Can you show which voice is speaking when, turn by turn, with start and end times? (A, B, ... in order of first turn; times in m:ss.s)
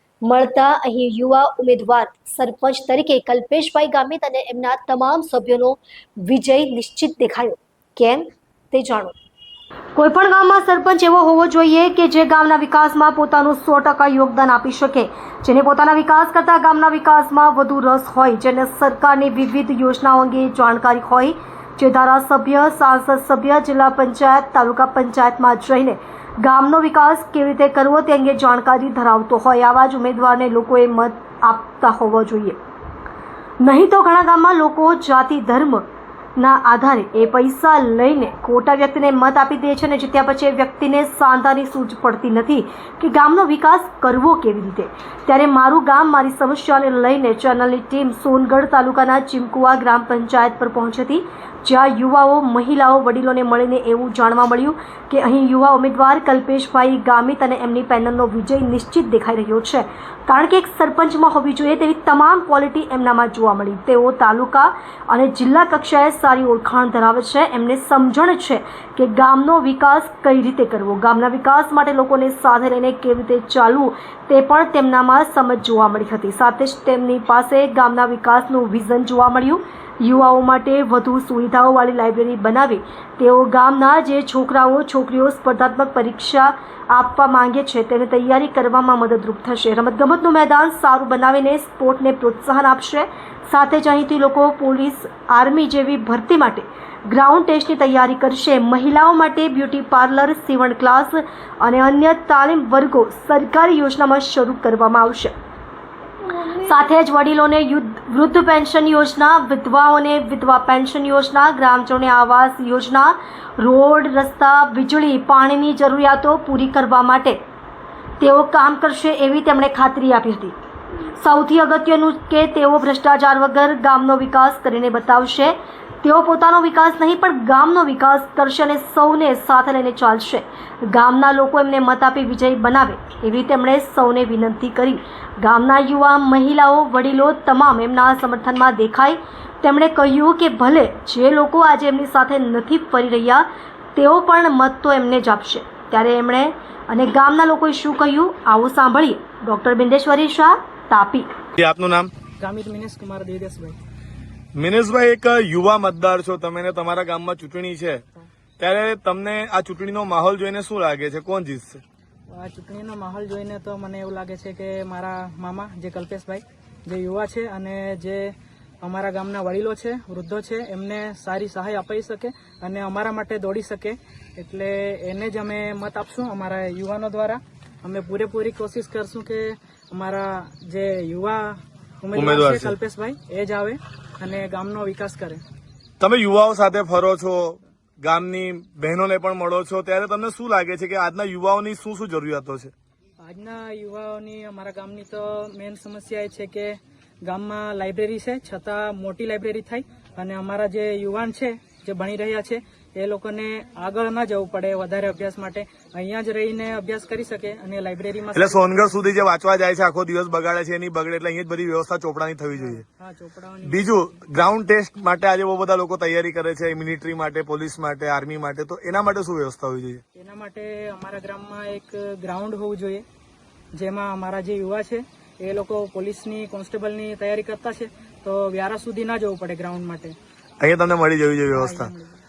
0:00.3-0:09.1 A
0:10.0-0:32.6 A
0:33.6-0:35.8 A
0:36.4-1:45.3 A
1:46.4-1:57.4 A
1:58.2-2:00.5 A
2:01.2-2:31.3 A
2:31.6-2:32.1 B
2:32.4-2:33.8 C
2:34.6-2:38.0 B
2:38.6-2:41.8 B
2:42.3-3:05.4 C
3:02.1-3:02.7 B
3:06.0-3:12.7 B
3:13.2-3:28.8 C
3:28.3-3:32.8 B
3:32.6-3:33.9 C
3:33.7-3:40.0 B
3:40.2-3:43.0 C
3:43.7-3:50.2 C
3:50.6-3:51.9 B
3:51.6-3:52.2 C